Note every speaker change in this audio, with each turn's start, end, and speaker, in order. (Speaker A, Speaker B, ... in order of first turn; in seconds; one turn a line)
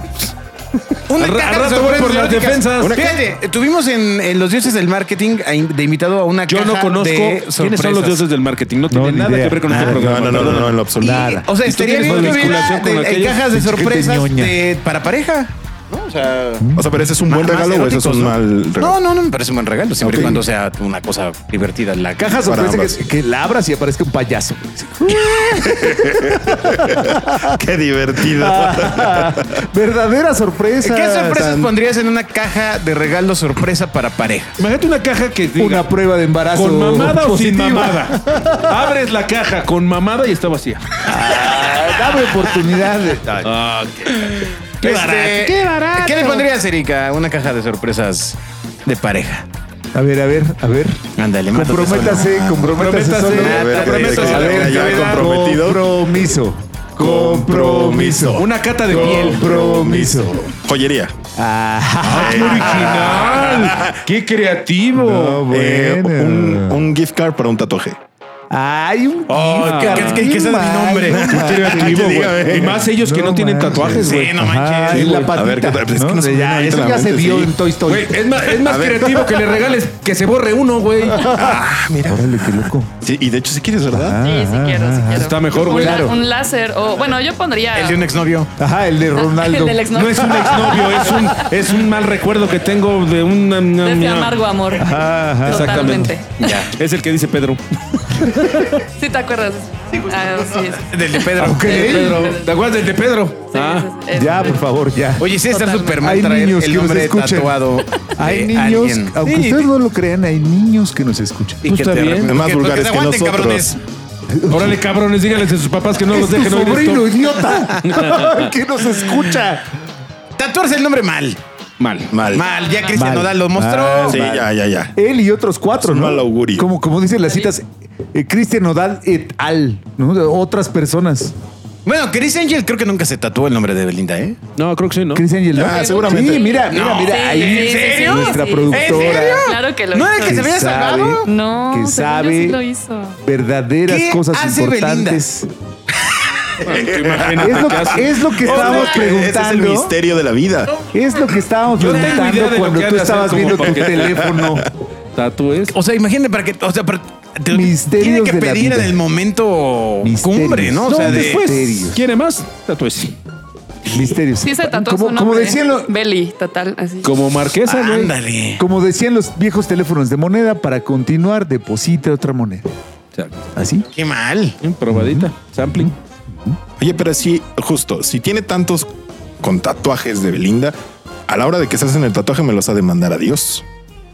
Speaker A: 1.1-8.2
Speaker B: 1.2-3.2
Speaker B: 6.5-10.8
Speaker C: 8.9-10.4
Speaker A: 9.7-16.7
Speaker D: 9.9-11.3
Speaker C: 10.9-12.7
Speaker B: 11.5-13.4
Speaker C: 13.4-14.6
Speaker C: 16.6-16.9
Speaker D: 16.8-19.0
Speaker A: 17.2-22.6
Speaker D: 20.0-20.4
Speaker C: 22.2-27.6
Speaker D: 22.5-23.0
Speaker D: 25.5-29.5
Speaker C: 28.1-31.7
Speaker A: 30.8-34.6
Speaker B: 34.6-35.9
Speaker C: 35.5-38.8
Speaker B: 36.5-40.9
Speaker C: 41.0-43.5
Speaker B: 43.4-46.0
Speaker A: 44.8-49.5
Speaker C: 46.0-46.4
Speaker C: 49.9-51.0
Speaker A: 51.2-52.7
Speaker C: 51.5-60.4
Speaker B: 52.7-55.3
Speaker A: 53.3-55.2
Speaker D: 53.4-55.9
Speaker D: 57.0-61.1
Speaker B: 58.3-59.5
Speaker C: 61.4-63.2
Speaker B: 62.0-65.5
Speaker D: 62.1-64.0
Speaker C: 64.9-66.9
Speaker D: 65.5-68.0
Speaker C: 68.5-78.1
Speaker A: 69.3-71.7
Speaker B: 69.6-70.3
Speaker B: 71.1-74.3
Speaker D: 71.2-72.9
Speaker A: 74.0-75.1
Speaker B: 74.9-75.4
Speaker D: 75.0-77.5
Speaker B: 77.8-81.3
Speaker D: 78.6-79.1
Speaker D: 81.2-84.2
Speaker C: 82.0-82.9
Speaker C: 83.9-86.2
Speaker E: 84.2-88.2
Speaker B: 85.2-86.1
Speaker A: 87.7-88.5
Speaker C: 88.6-90.8
Speaker E: 89.1-91.5
Speaker B: 89.9-94.4
Speaker E: 93.8-96.5
Speaker C: 94.8-95.9
Speaker B: 95.4-98.8
Speaker C: 98.2-98.6
Speaker E: 98.8-101.0
Speaker A: 100.9-102.1
Speaker C: 101.3-102.2
Speaker B: 101.4-103.9
Speaker E: 102.1-102.5
Speaker E: 103.5-104.7
Speaker C: 104.1-105.3
Speaker A: 105.2-109.2
Speaker E: 105.4-106.0
Speaker C: 106.0-107.5
Speaker C: 108.2-111.7
Speaker B: 109.2-109.7
Speaker B: 111.6-112.4
Speaker A: 111.6-113.8
Speaker D: 112.2-113.7
Speaker C: 114.3-114.8
Speaker B: 114.5-118.5
Speaker C: 116.1-119.7
Speaker A: 117.5-117.8
Speaker A: 120.4-121.4
Speaker B: 121.8-122.1
Speaker D: 122.1-122.5
Speaker A: 122.3-124.2
Speaker C: 122.9-131.3
Speaker D: 124.1-125.0
Speaker D: 125.8-126.7
Speaker A: 131.8-134.4
Speaker B: 134.6-135.2
Speaker C: 135.1-139.5
Speaker D: 135.5-136.5
Speaker E: 135.6-140.4
Speaker A: 136.7-141.3
Speaker C: 140.2-142.6
Speaker E: 141.3-143.2
Speaker C: 143.2-145.5
Speaker A: 143.8-145.2
Speaker B: 146.6-148.9
Speaker D: 146.7-147.9
Speaker C: 147.3-149.9
Speaker D: 148.4-150.7
Speaker A: 148.4-149.2
Speaker C: 150.9-154.7
Speaker B: 151.8-154.5
Speaker A: 151.9-152.1
Speaker B: 155.1-155.7
Speaker A: 155.7-161.4
Speaker C: 157.5-159.0
Speaker C: 160.0-162.0
Speaker B: 160.9-163.2
Speaker C: 163.8-166.0
Speaker E: 164.4-167.2
Speaker B: 167.0-168.1
Speaker A: 167.6-168.6
Speaker C: 168.6-172.7
Speaker B: 173.1-173.4
Speaker C: 173.6-173.8
Speaker A: 173.9-174.6
Speaker B: 174.6-175.9
Speaker C: 174.9-176.6
Speaker D: 176.8-178.9
Speaker D: 179.4-180.8
Speaker D: 181.3-183.6